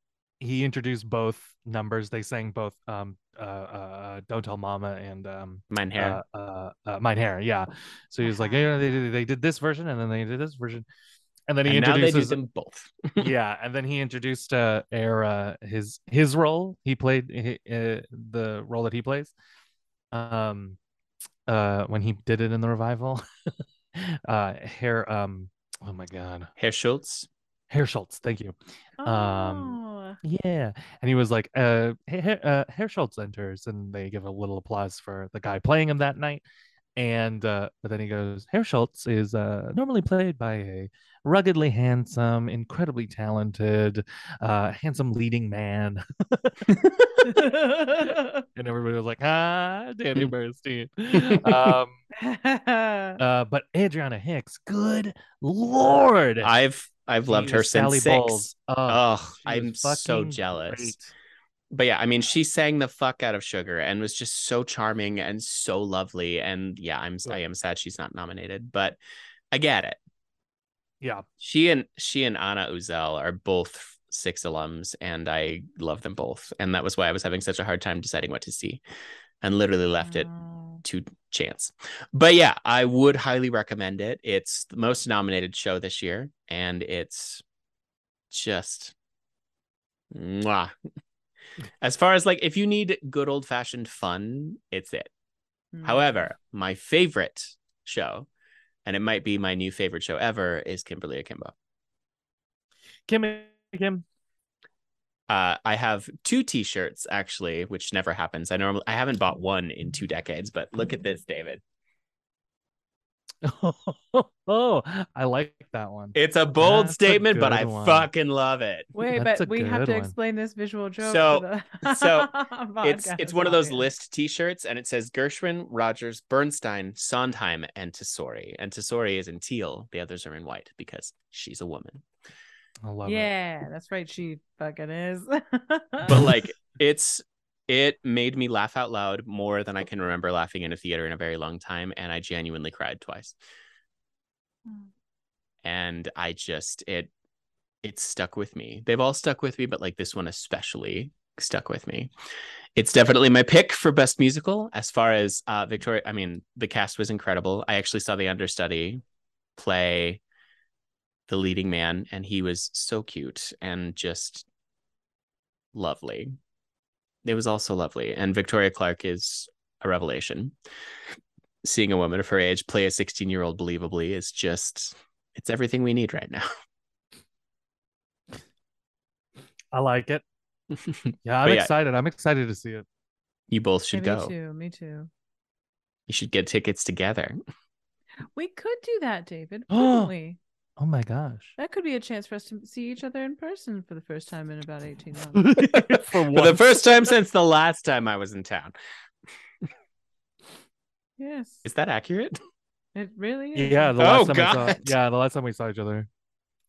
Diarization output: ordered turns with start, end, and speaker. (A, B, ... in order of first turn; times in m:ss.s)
0:00.4-0:10.8 A
0:05.7-0:06.2 B
0:08.2-0:08.8 C
0:11.5-0:12.4 A
0:11.6-0:13.3 B
0:13.2-0:19.3 A
0:20.1-0:20.8 A
0:21.5-0:23.2 A
0:23.9-0:26.5 A
0:26.6-0:27.3 B
0:27.7-0:36.4 A
0:29.0-0:30.2 C
0:37.0-0:46.7 A
0:46.7-0:47.3 B
0:47.2-0:48.4 C
0:48.5-0:52.0 A
0:51.1-0:51.8 B
0:52.2-0:53.2 C
0:53.2-0:56.5 A
0:56.4-1:01.0 B
0:57.3-1:01.1 A
1:01.7-1:09.0 B
1:09.5-1:10.0 B
1:11.4-1:18.8 B
1:19.4-1:20.3 B
1:20.0-1:20.8 C
1:20.8-1:27.4 B
1:28.3-1:28.9 B
1:30.1-1:30.7 B
1:31.8-1:35.1 B
1:35.7-1:36.2 C
1:35.8-1:38.3 B
1:38.8-1:41.5 B
1:43.1-1:44.0 A
1:45.3-1:51.6 B
1:53.4-1:58.1 A
1:56.1-1:58.9 B
1:58.9-2:03.9 C
1:59.2-2:00.1 A
2:01.0-2:02.3 B
2:02.8-2:12.0 B
2:12.8-2:13.3 A
2:13.0-2:16.3 C
2:16.0-2:23.4 B
2:25.6-2:27.1 B
2:27.8-2:32.1 B
2:32.8-2:39.0 B
2:39.6-2:40.2 B
2:41.3-2:44.4 B
2:45.7-2:46.4 B
2:47.2-2:50.6 B
2:51.6-2:56.5 B
2:59.7-3:00.2 A
3:00.7-3:01.7 B
3:01.2-3:02.8 A
3:03.5-3:04.3 B
3:03.9-3:05.1 C
3:06.1-3:07.4 B
3:08.3-3:10.4 C
3:09.7-3:10.1 A
3:10.8-3:11.6 A
3:11.6-3:15.7 C
3:15.3-3:16.8 A
3:15.6-3:18.7 B
3:21.2-3:21.6 C
3:21.6-3:22.4 B
3:22.9-3:24.0 C
3:23.5-3:26.1 A
3:24.0-3:25.0 B